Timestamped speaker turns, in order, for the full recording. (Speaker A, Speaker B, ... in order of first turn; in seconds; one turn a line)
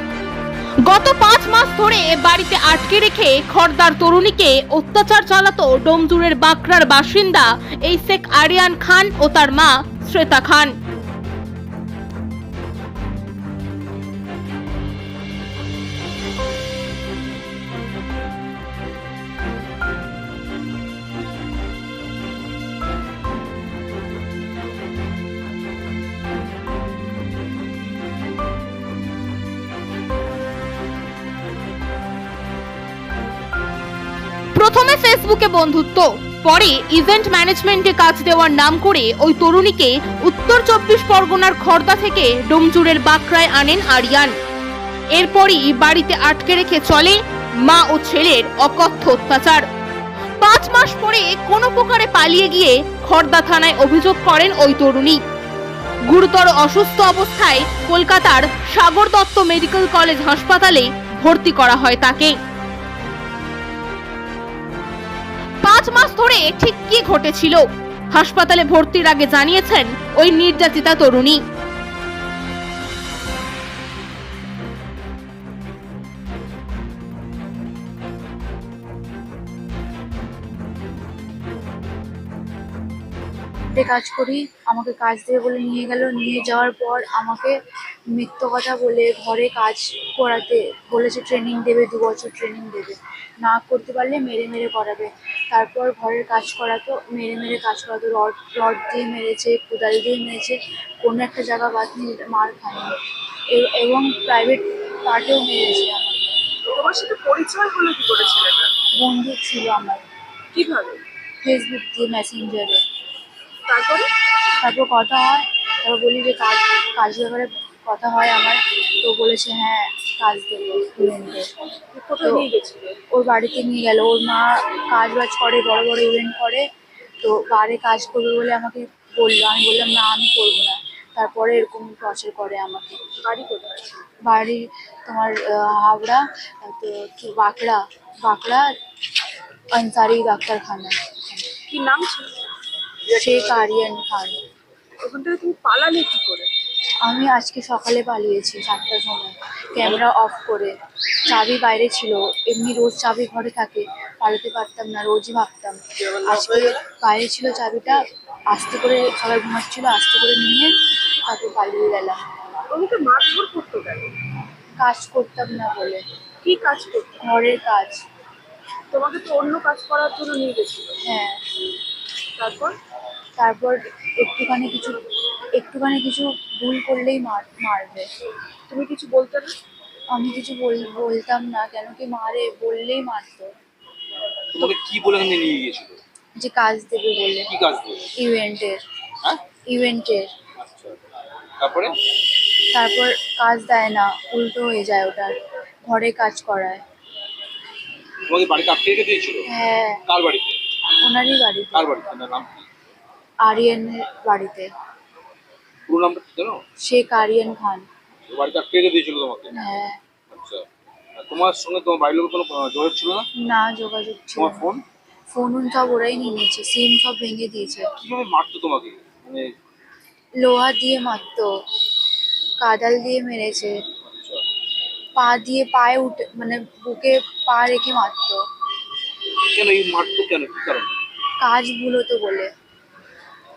Speaker A: 0.8-10.8
Speaker A: 34.5-44.4
Speaker A: 45.1-49.6
Speaker A: 50.4-55.2
Speaker A: 56.1-62.4
Speaker A: 65.6-71.4
Speaker B: 83.7-87.6
Speaker B: 88.1-102.9
Speaker B: 103.5-106.3
Speaker C: 106.7-108.7
Speaker B: 109.0-110.0
Speaker C: 110.5-111.0
Speaker B: 111.4-112.8
Speaker C: 113.7-114.1
Speaker B: 114.6-121.5
Speaker C: 121.9-123.0
Speaker B: 122.2-122.5
Speaker B: 123.1-126.7
Speaker B: 127.2-133.0
Speaker C: 133.2-134.0
Speaker B: 134.2-138.7
Speaker B: 139.7-141.5
Speaker C: 141.7-142.3
Speaker B: 143.1-144.4
Speaker C: 145.0-146.5
Speaker B: 147.0-162.2
Speaker C: 162.7-164.2
Speaker B: 164.8-166.0
Speaker C: 166.4-167.2
Speaker B: 167.2-168.0
Speaker C: 168.9-171.0
Speaker B: 171.0-171.4
Speaker C: 172.4-172.8
Speaker B: 173.4-175.0
Speaker B: 175.6-178.1
Speaker C: 178.7-179.6
Speaker B: 180.1-183.5
Speaker D: 184.5-186.0
Speaker B: 186.4-187.5
Speaker D: 187.5-188.1
Speaker B: 188.2-188.8
Speaker B: 189.7-190.3
Speaker D: 190.6-191.0
Speaker D: 191.6-192.0
Speaker B: 192.7-196.8
Speaker D: 198.3-199.5
Speaker B: 199.5-200.0
Speaker D: 200.1-200.6
Speaker B: 201.0-201.9
Speaker D: 201.8-202.7
Speaker B: 203.4-204.7
Speaker D: 205.9-206.6
Speaker B: 206.8-207.9
Speaker D: 208.3-209.6
Speaker B: 209.5-210.0
Speaker D: 210.3-210.7
Speaker D: 211.2-213.3
Speaker B: 213.4-214.7
Speaker D: 214.4-214.8
Speaker B: 215.3-217.9
Speaker D: 218.0-219.5
Speaker B: 220.4-221.5
Speaker B: 222.6-223.8
Speaker D: 224.1-224.4
Speaker B: 225.2-228.4
Speaker D: 229.5-230.9
Speaker B: 231.4-232.5